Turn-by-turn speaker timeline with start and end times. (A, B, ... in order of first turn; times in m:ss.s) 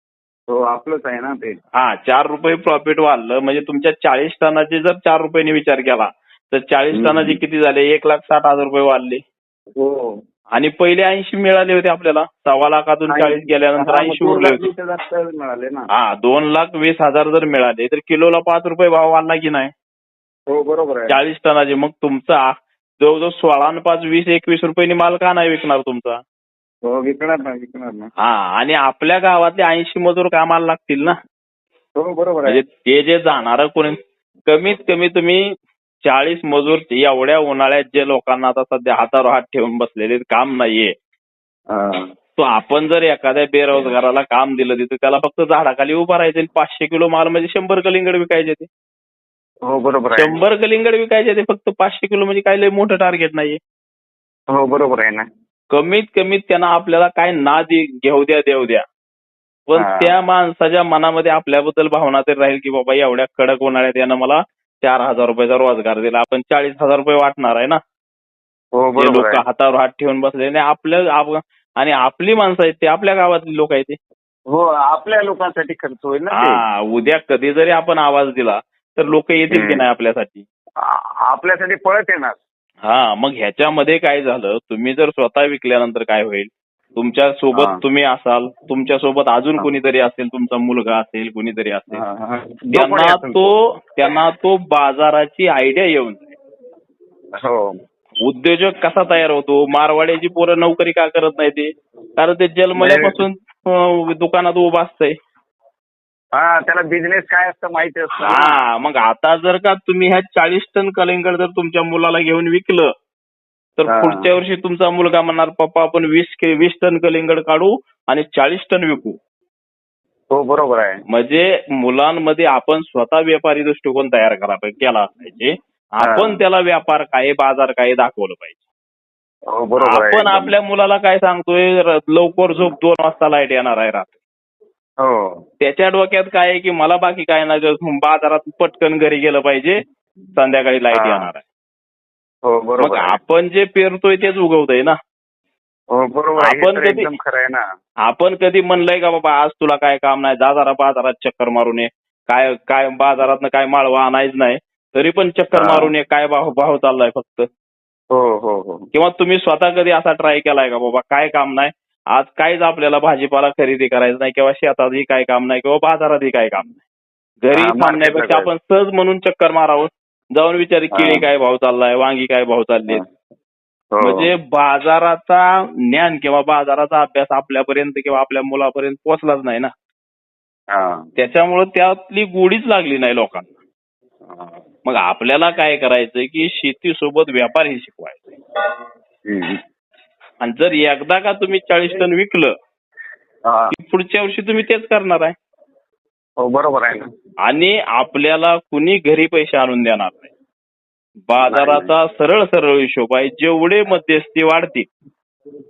0:00.5-0:01.6 A
0:01.8-0:09.2 B
0:09.8-0:10.1 A
0:10.5-0:14.7 B
0:13.1-0:15.9 A
0:15.9-0:19.7 B
0:20.5-0:21.2 A
0:21.1-0:26.2 B
0:26.9-0:28.1 A
0:28.2-0:31.2 B
0:32.0-0:32.6 A
0:32.4-0:35.4 B
0:36.0-0:40.9 B
0:42.4-0:48.7 B
0:49.6-0:50.4 A
0:50.2-0:53.6 B
0:54.5-0:55.2 A
0:55.7-0:58.8 B
0:59.7-1:07.8 B
1:08.8-1:09.4 A
1:09.0-1:14.0 B
1:14.5-1:16.6 A
1:16.4-1:20.5 B
1:19.6-1:19.8 A
1:20.8-1:22.4 A
1:22.8-1:32.0 B
1:32.0-1:33.5 A
1:32.7-1:36.3 B
1:37.4-1:37.7 A
1:38.2-1:45.1 B
1:42.8-1:43.2 A
1:46.4-1:48.6 A
1:48.2-1:52.9 B
1:53.8-1:59.2 B
2:00.3-2:01.0 A
2:01.1-2:08.6 B
2:09.6-2:10.3 A
2:09.8-2:14.2 B
2:15.0-2:15.4 A
2:15.6-2:19.8 B
2:20.4-2:21.4 B
2:21.0-2:21.3 A
2:22.5-2:23.2 A
2:22.8-2:24.9 B
2:26.0-2:27.6 A
2:26.4-2:27.1 B
2:28.0-2:37.5 B
2:38.2-2:38.8 A
2:38.9-2:46.8 B
2:47.4-2:53.0 B
2:47.6-2:48.5 A
2:54.0-2:59.7 B
3:01.2-3:03.5 B
3:04.8-3:08.2 B
3:09.3-3:09.6 A
3:10.4-3:12.5 B
3:13.7-3:15.4 B
3:16.4-3:17.0 A
3:17.4-3:20.3 B
3:21.3-3:24.9 B
3:21.6-3:21.8 A